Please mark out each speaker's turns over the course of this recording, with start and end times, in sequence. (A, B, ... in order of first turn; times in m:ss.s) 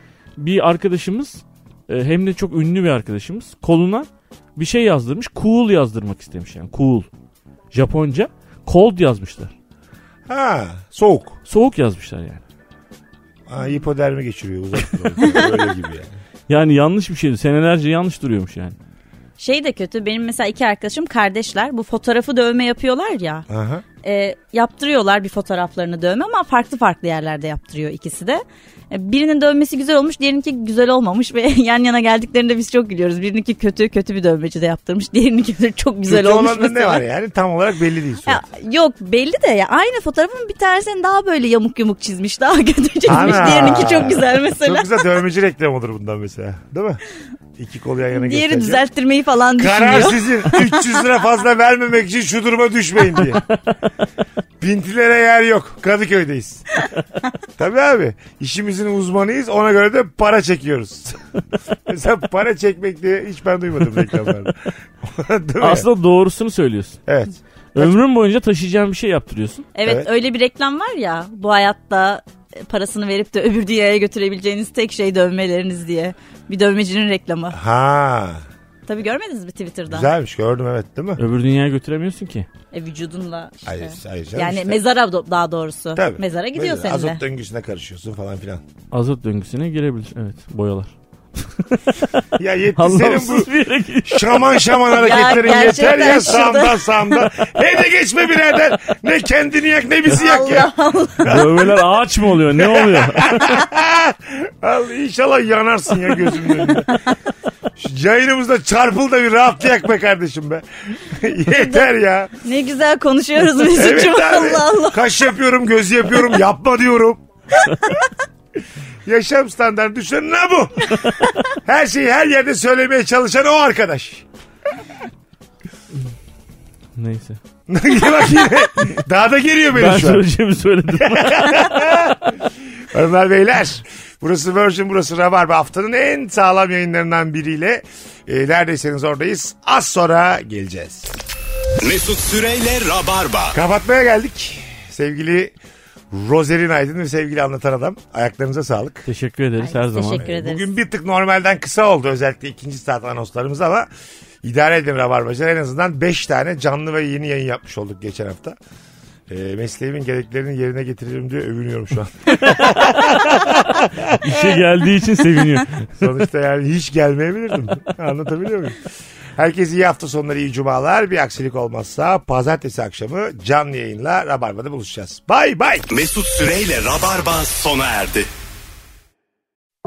0:00.4-0:07.1 A
0:07.7-0:09.5 A
0:10.3-0:11.4 B
0:11.5-0:12.4 A
0:13.5-0:16.2 B
0:16.5-0:18.8 A
0:19.4-0:23.5 C
0:23.5-0:23.8 B
0:24.0-0:37.0 C
0:36.1-0:38.4 B
0:38.3-0:45.0 C
0:43.1-0:47.0 B
0:47.6-0:48.8 B
0:48.1-0:51.0 C
0:49.6-0:53.4 B
0:54.6-0:56.8 B
0:57.6-1:01.2 B
1:01.9-1:05.9 B
1:05.6-1:07.0 A
1:07.1-1:08.0 B
1:07.7-1:09.7 A
1:09.8-1:17.6 C
1:17.5-1:18.4 B
1:18.9-1:20.1 C
1:19.9-1:21.2 B
1:21.2-1:22.5 A
1:22.7-1:27.2 C
1:23.7-1:24.8 B
1:26.0-1:28.6 B
1:28.9-1:32.2 A
1:32.4-1:33.5 B
1:32.8-1:34.4 A
1:34.0-1:41.8 B
1:34.9-1:37.2 C
1:40.1-1:41.3 C
1:41.3-1:43.6 A
1:42.6-1:46.9 B
1:47.8-1:52.3 B
1:51.5-1:51.9 C
1:52.4-1:55.0 C
1:53.6-1:57.2 B
1:59.1-2:04.3 B
2:07.0-2:07.4 A
2:07.7-2:10.2 B
2:09.7-2:12.2 A
2:11.0-2:12.2 B
2:12.9-2:21.1 B
2:21.8-2:23.6 D
2:23.5-2:25.6 B
2:26.1-2:29.1 B
2:29.1-2:30.3 A
2:29.6-2:30.7 C
2:30.2-2:33.9 B
2:34.4-2:38.6 B
2:39.3-2:44.4 B
2:42.4-2:43.5 A
2:44.1-2:46.1 A
2:46.0-2:48.8 B
2:49.4-2:55.9 B
2:55.9-2:58.3 D